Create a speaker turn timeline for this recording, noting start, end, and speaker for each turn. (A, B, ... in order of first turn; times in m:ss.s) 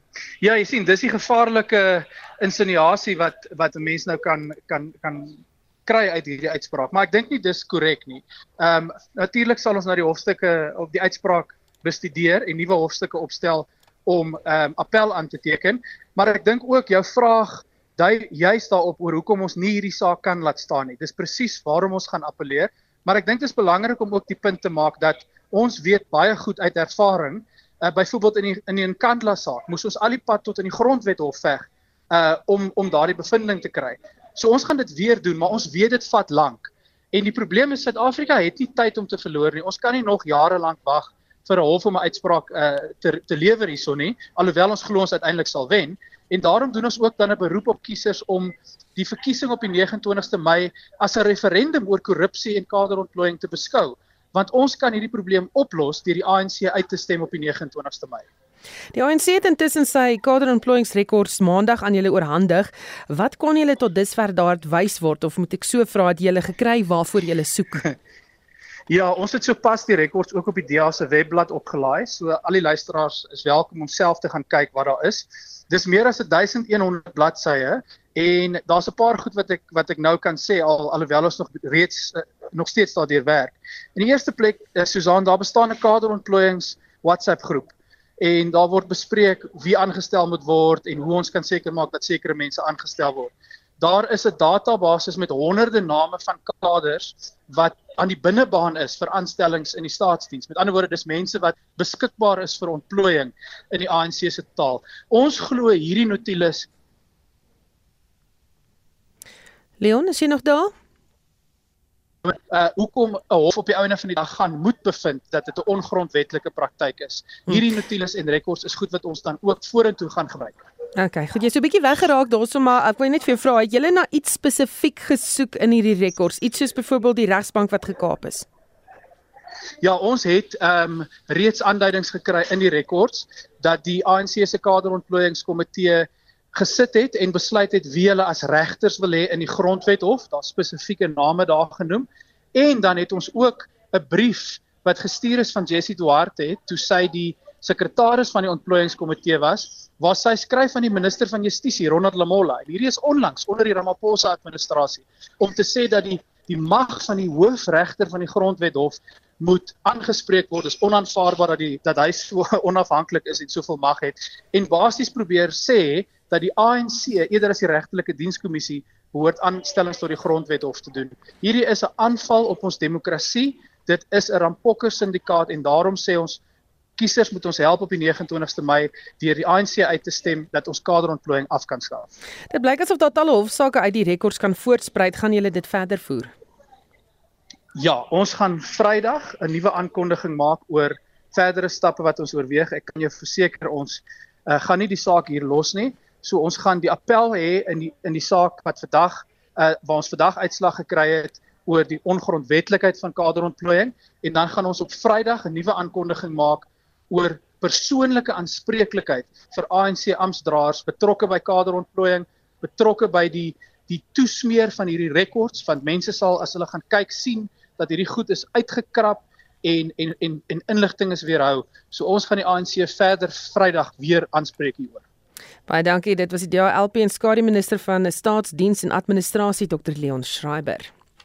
0:00.4-0:58.3 A
0:59.0-1:07.9 B
1:08.9-1:46.7 A
1:49.8-1:50.7 B
1:52.3-2:00.6 A
2:01.0-2:08.5 B
2:09.8-2:56.4 A
2:57.0-3:02.1 A
3:02.5-3:06.3 B
3:07.8-3:45.0 A
3:45.7-3:50.9 B